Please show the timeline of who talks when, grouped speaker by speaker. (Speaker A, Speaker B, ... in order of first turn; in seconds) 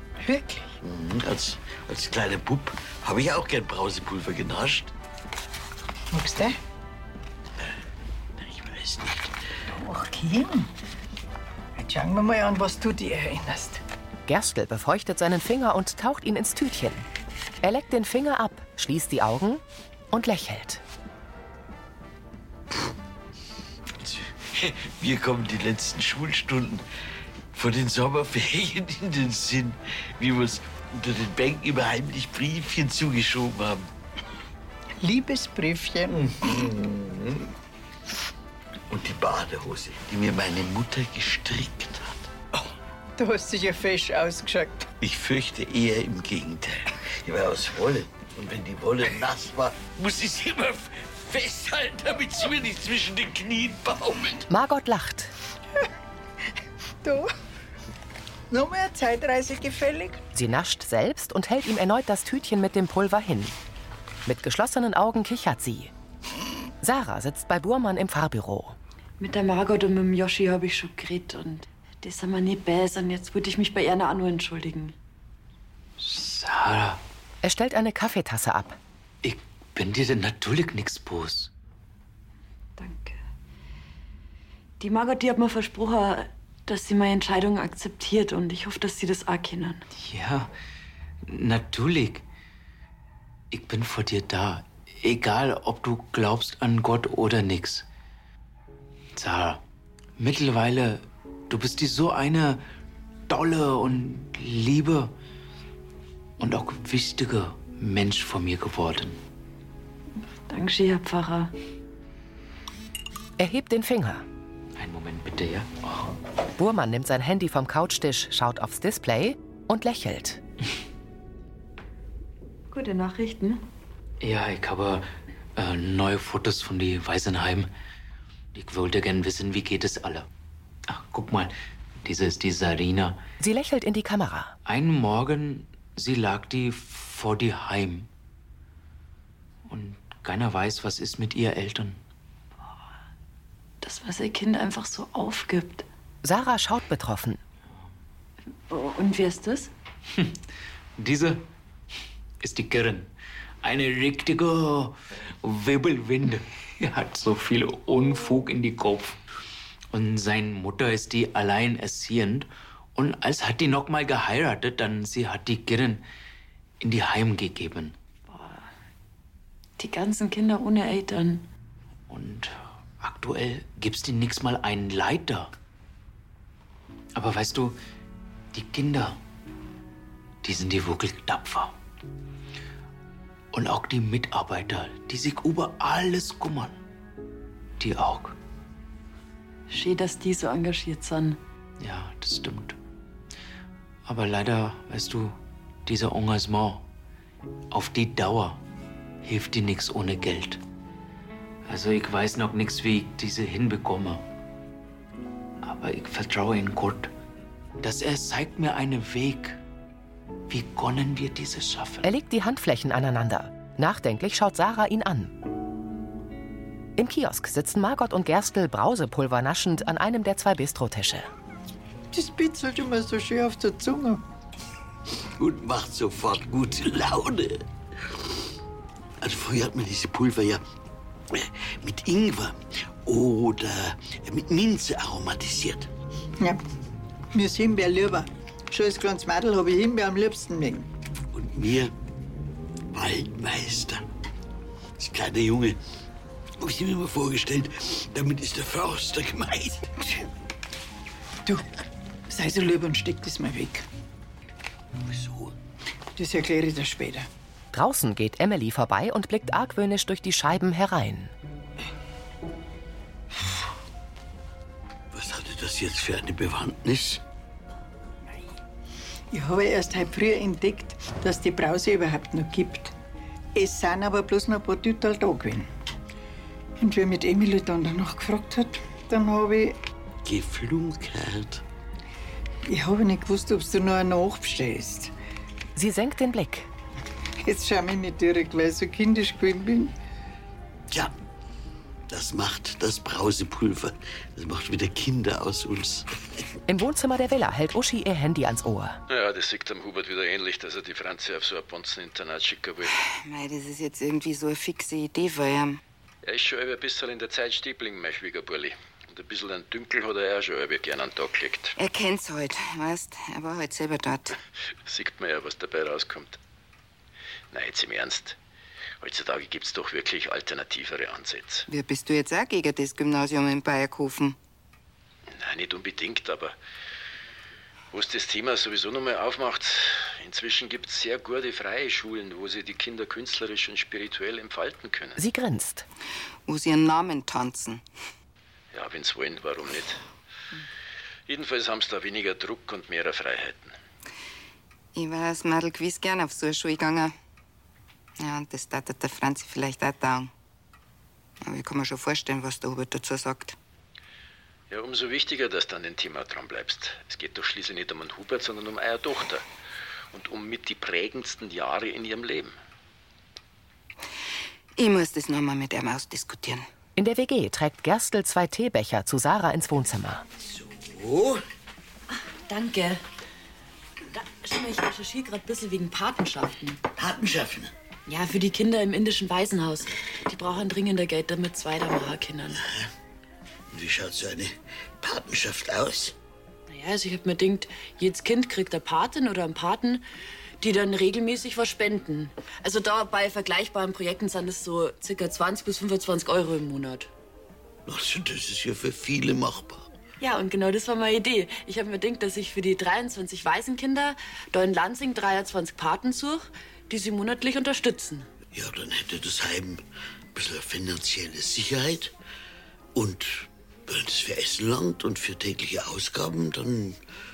Speaker A: 0.2-0.8, 6.1-6.6, 9.7-10.7, 11.8-13.8, 35.0-36.2, 43.2-44.9, 57.0-57.3, 58.5-60.2, 222.1-224.2, 237.3-240.9, 252.3-253.8, 256.1-257.3, 269.3-272.9, 273.5-275.7, 276.8-279.8, 282.7-285.1, 287.4-289.9
Speaker B: 0.8-4.9, 8.4-9.3, 24.0-26.8, 27.5-33.9, 36.1-37.5, 38.9-42.3, 45.0-54.5, 225.4-228.2, 229.2-230.6, 231.3-235.9, 241.3-241.9, 242.9-244.0, 245.0-245.8, 246.6-249.9, 255.0-255.5, 265.1-267.2, 280.2-281.6, 292.1-296.1, 370.4-371.4, 376.9-377.7, 382.6-382.9, 383.7-386.1, 397.9-399.9, 408.5-409.8, 410.3-412.1, 412.9-417.0
Speaker C: 14.3-17.0, 17.6-20.8, 54.5-55.3, 60.3-63.5, 64.2-65.9, 66.8-68.8, 77.4-78.8, 113.4-114.2, 116.6-120.4, 133.4-134.5, 146.2-147.4, 212.0-215.3, 217.0-221.3, 257.7-261.3, 285.7-286.7, 296.7-299.0, 335.2-335.9, 366.9-370.2
Speaker D: 69.2-74.9, 82.8-83.2, 84.8-89.8, 110.5-111.5, 122.7-123.6, 143.8-145.8, 148.7-149.7, 168.3-168.7, 169.8-171.4, 189.7-191.4, 372.1-373.0, 374.1-376.8, 378.1-382.6, 386.7-390.0, 390.6-397.1, 400.2-408.3
Speaker E: 76.0-77.0, 79.2-81.5, 89.9-90.5, 91.3-92.2, 93.5-97.8, 99.2-99.6, 100.2-102.6, 103.3-105.1, 106.4-109.2, 114.8-116.1, 124.2-127.7, 128.5-130.3, 130.9-133.2, 134.6-138.1, 139.7-142.0, 151.0-151.4, 152.4-153.1, 153.6-159.2, 159.9-166.0, 166.8-167.9, 172.1-175.5, 177.2-177.8, 178.5-179.2, 180.4-181.7, 183.5-186.8, 187.8-188.3, 191.8-192.8, 194.1-196.8, 197.7-198.6, 199.2-200.6, 201.7-204.2, 205.6-207.1, 207.8-209.6, 210.5-212.1
Speaker F: 299.1-302.9, 306.2-311.7, 314.9-316.4, 317.5-318.4, 319.0-321.6, 325.3-326.5, 327.9-335.2, 338.7-340.0, 341.3-343.7, 354.7-359.4, 360.1-362.5
Speaker G: 303.0-305.8, 311.8-314.3, 321.7-324.4, 336.5-337.9, 344.9-347.1, 348.2-350.3, 351.4-353.6, 364.8-366.6